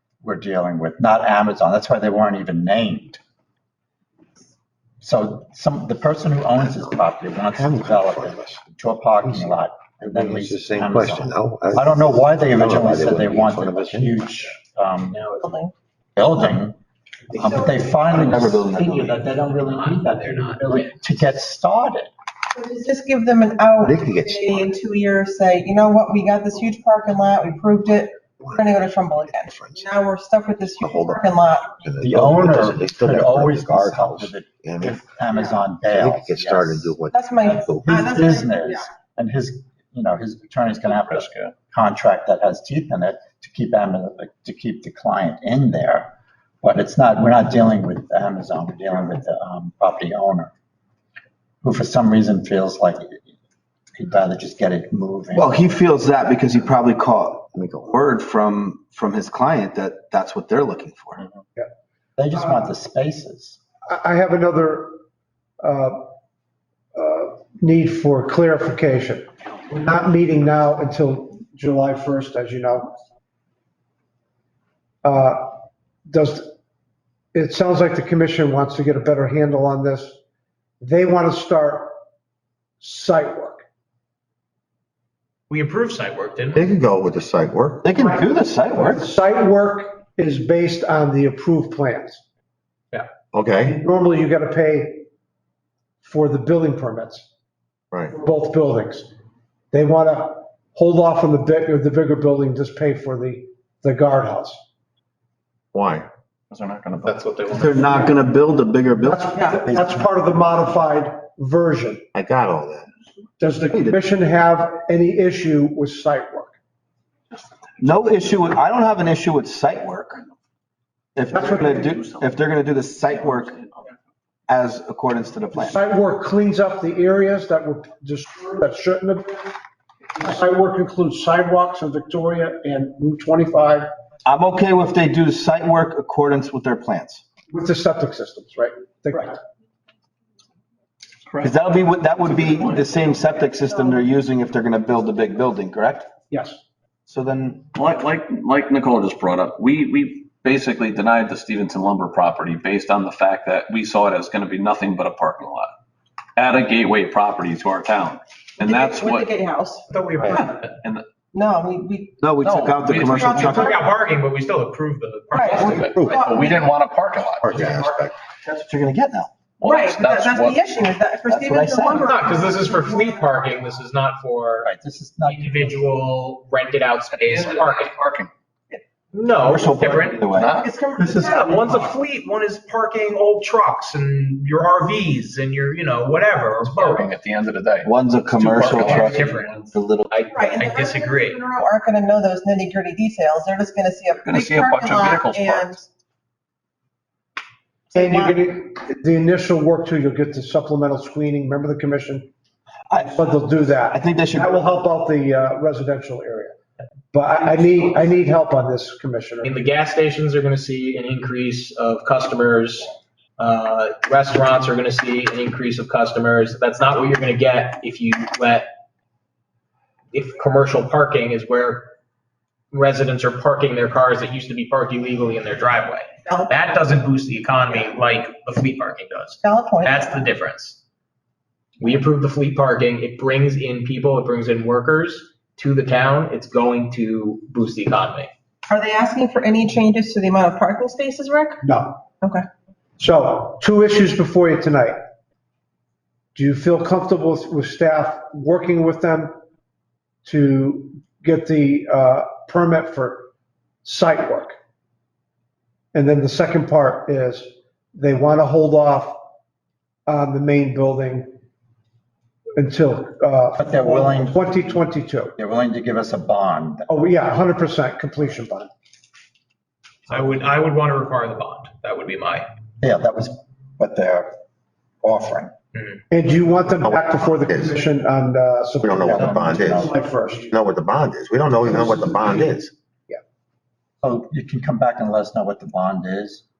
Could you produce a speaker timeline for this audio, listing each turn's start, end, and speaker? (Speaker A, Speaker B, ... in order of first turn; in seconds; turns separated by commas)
Speaker A: 0.2-3.2, Speaker A: 5.0-15.2, Speaker B: 10.2-14.1, Speaker C: 15.1-15.5, Speaker B: 15.4-15.7, Speaker A: 16.2-16.8, Speaker A: 17.3-22.1, Speaker B: 17.4-17.8, Speaker D: 18.1-19.0, Speaker C: 18.2-21.0, Speaker B: 22.5-31.8, Speaker E: 23.9-24.7, Speaker E: 28.4-28.7, Speaker E: 29.3-29.9, Speaker E: 30.8-35.0, Speaker A: 32.0-37.0, Speaker E: 35.9-37.9, Speaker B: 37.1-38.9, Speaker A: 37.6-50.5, Speaker F: 40.8-41.5, Speaker A: 51.6-53.2, Speaker A: 54.0-55.5, Speaker D: 55.3-61.2, Speaker A: 62.2-63.6, Speaker G: 63.9-64.9, Speaker G: 65.6-66.0, Speaker G: 67.0-73.0, Speaker G: 75.0-76.5, Speaker G: 77.3-80.2, Speaker G: 80.8-81.9, Speaker G: 82.8-83.6, Speaker C: 85.5-86.7, Speaker E: 86.5-87.9, Speaker D: 87.8-89.1, Speaker G: 88.0-92.2, Speaker E: 93.3-93.8, Speaker G: 93.6-95.1, Speaker G: 96.0-97.3, Speaker G: 98.1-99.1, Speaker G: 99.7-104.6, Speaker E: 105.7-106.1, Speaker F: 106.5-107.7, Speaker C: 107.0-108.1, Speaker D: 107.5-109.3, Speaker G: 109.0-112.0, Speaker B: 109.4-109.6, Speaker E: 112.1-112.9, Speaker G: 113.4-116.5, Speaker F: 117.3-117.8, Speaker D: 117.8-120.2, Speaker D: 121.2-123.6, Speaker G: 121.3-122.0, Speaker F: 122.0-122.3, Speaker F: 123.1-123.7, Speaker D: 124.5-125.8, Speaker G: 125.5-129.5, Speaker G: 130.2-133.9, Speaker D: 134.2-137.2, Speaker G: 137.5-139.4, Speaker F: 141.3-141.6, Speaker D: 141.4-146.2, Speaker F: 142.3-142.9, Speaker G: 146.3-146.6, Speaker D: 147.1-147.7, Speaker F: 147.7-155.7, Speaker F: 156.4-159.3, Speaker B: 158.6-160.5, Speaker C: 159.9-160.8, Speaker F: 160.3-161.1, Speaker B: 161.3-162.2, Speaker D: 162.2-163.8, Speaker F: 162.4-163.7, Speaker C: 163.1-165.9, Speaker B: 163.1-163.8, Speaker B: 165.3-166.7, Speaker F: 165.3-167.8, Speaker D: 165.6-165.9, Speaker C: 167.4-168.1, Speaker E: 167.5-168.1, Speaker D: 168.4-169.3, Speaker F: 169.6-170.6, Speaker B: 169.6-173.5, Speaker D: 171.3-172.1, Speaker C: 171.9-174.7, Speaker A: 174.6-175.8, Speaker C: 175.3-177.9, Speaker F: 177.2-178.3, Speaker C: 179.1-180.2, Speaker D: 179.4-180.6, Speaker F: 180.3-180.7, Speaker B: 180.6-181.9, Speaker C: 181.0-187.1, Speaker F: 186.8-189.7, Speaker D: 187.8-190.1, Speaker C: 188.5-191.4, Speaker B: 190.3-195.9, Speaker F: 194.2-195.8, Speaker G: 197.9-202.3, Speaker B: 197.9-198.4, Speaker D: 202.9-204.7, Speaker G: 203.0-206.6, Speaker G: 207.1-209.5, Speaker C: 209.4-218.7, Speaker C: 220.1-221.9, Speaker C: 222.7-230.8, Speaker B: 226.2-226.5, Speaker B: 229.4-230.2, Speaker C: 231.8-238.3, Speaker B: 238.7-241.6, Speaker G: 241.6-242.2, Speaker G: 243.0-245.0, Speaker G: 246.3-249.3, Speaker G: 250.2-253.3, Speaker G: 253.8-254.5, Speaker G: 255.9-259.2, Speaker G: 260.1-261.3, Speaker G: 262.6-265.3, Speaker A: 263.6-264.6, Speaker A: 265.4-266.9, Speaker G: 266.9-268.7, Speaker C: 270.1-272.5, Speaker A: 272.8-274.3, Speaker A: 275.0-275.5, Speaker G: 276.1-280.5, Speaker E: 276.8-277.8, Speaker E: 278.8-279.9, Speaker A: 279.0-280.0, Speaker E: 280.5-282.7, Speaker G: 281.7-282.4, Speaker A: 284.0-286.4